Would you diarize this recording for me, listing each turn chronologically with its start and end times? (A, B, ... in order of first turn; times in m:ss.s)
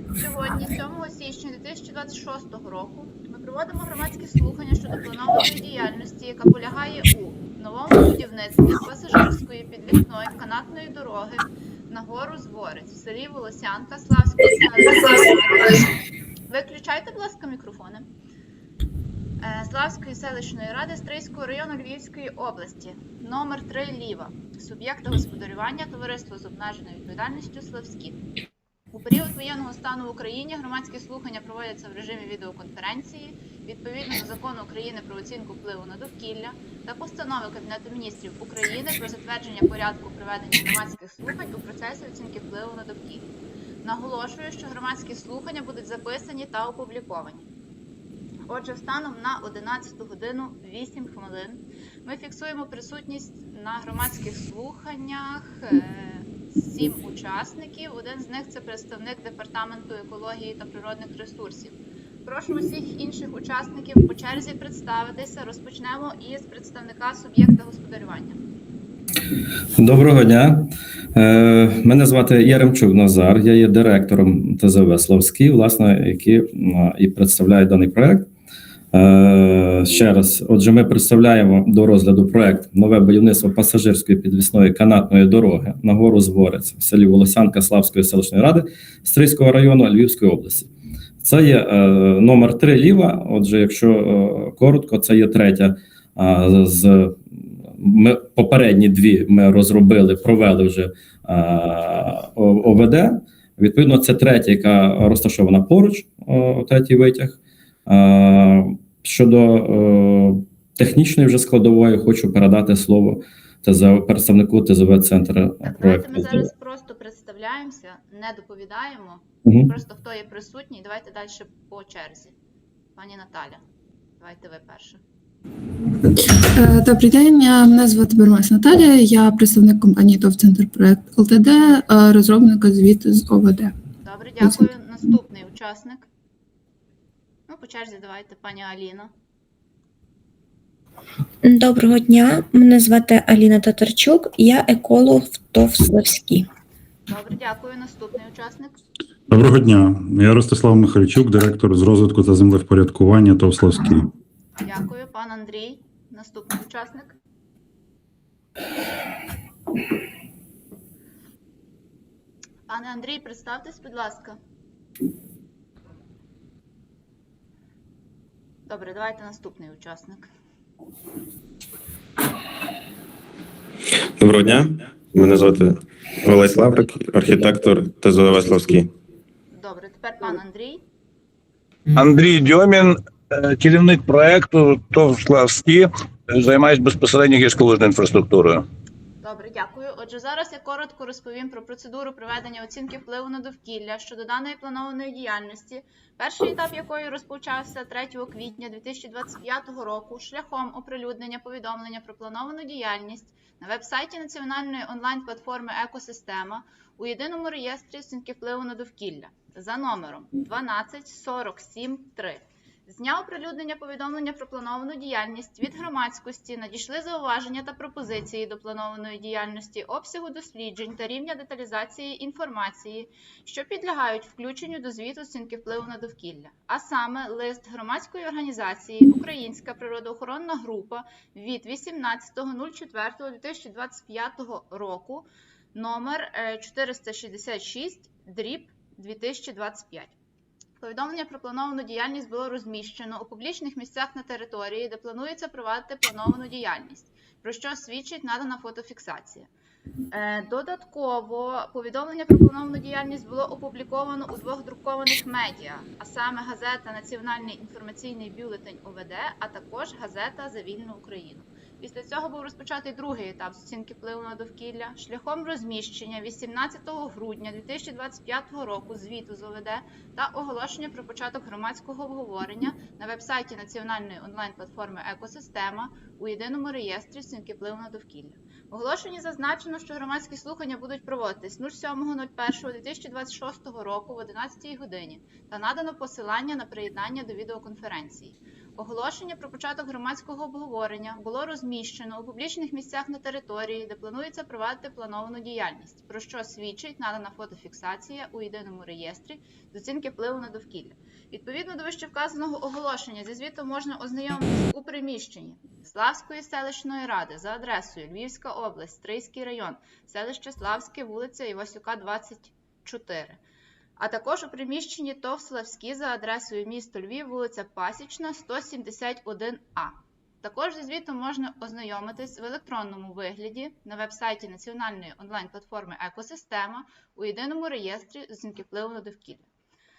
0:00.2-0:15.9 A
0:16.5-0:18.0 A
0:19.4-0:28.2 A
0:28.9-0:43.3 A
0:43.8-0:47.4 A
0:48.5-1:08.4 A
1:09.8-1:18.3 B
1:18.9-1:30.7 B
1:31.2-1:56.4 B
1:55.6-2:02.3 A
1:59.4-1:59.7 B
2:03.0-2:03.6 A
2:04.2-2:05.0 A
2:06.6-2:13.7 C
2:14.0-2:16.1 A
2:17.5-2:19.1 A
2:21.4-2:26.5 D
2:27.1-2:28.8 A
2:29.3-2:34.1 E
2:34.6-2:37.1 A
2:42.7-2:44.4 A
2:48.7-2:50.3 A
2:54.2-2:58.9 F
2:59.5-3:00.8 A
3:02.0-3:02.9 G
3:03.4-3:08.6 G
3:09.2-4:00.2 A
4:00.8-4:09.5 A
4:10.1-5:13.4 A
5:14.0-5:29.5 A